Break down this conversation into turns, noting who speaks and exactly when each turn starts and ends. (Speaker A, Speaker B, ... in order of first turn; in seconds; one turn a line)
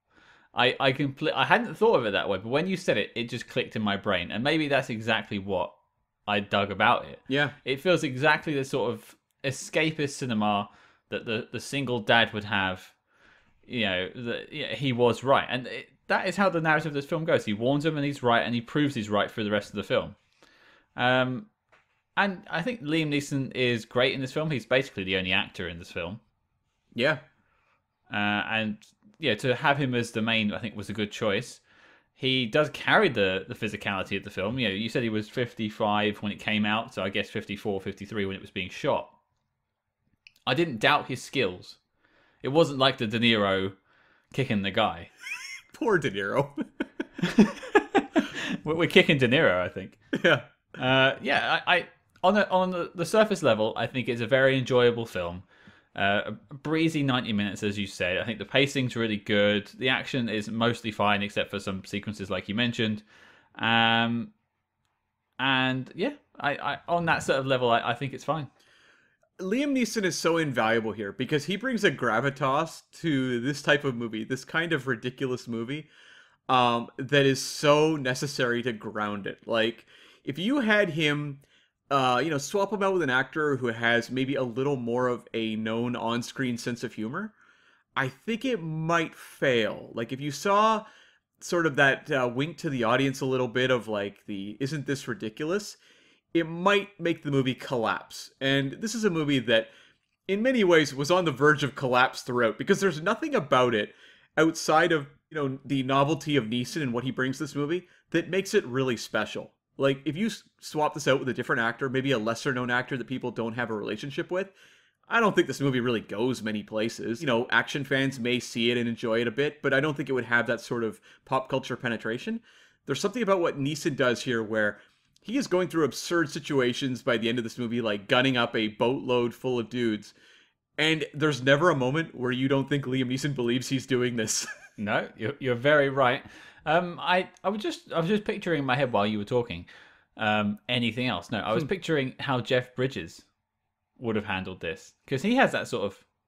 Speaker A: 0.5-5.7
Speaker A: 6.3-12.9
Speaker B: 7.3-7.5
Speaker A: 13.7-20.1
Speaker A: 20.9-21.5
Speaker A: 22.1-26.2
Speaker B: 26.9-27.2
Speaker A: 28.1-31.6
Speaker A: 32.1-39.1
Speaker A: 40.5-41.8
Speaker A: 42.4-43.8
Speaker A: 44.3-45.1
Speaker B: 45.7-46.6
Speaker A: 47.2-50.0
Speaker B: 50.1-50.5
Speaker A: 50.8-63.0
Speaker A: 63.5-64.3
Speaker A: 65.4-68.5
Speaker B: 69.4-75.9
Speaker B: 76.5-87.3
Speaker B: 88.0-90.8
Speaker B: 91.4-95.8
Speaker B: 96.3-99.7
Speaker B: 100.3-114.5
Speaker B: 115.1-130.1
Speaker B: 130.8-134.5
Speaker A: 134.8-143.2
Speaker A: 144.0-146.0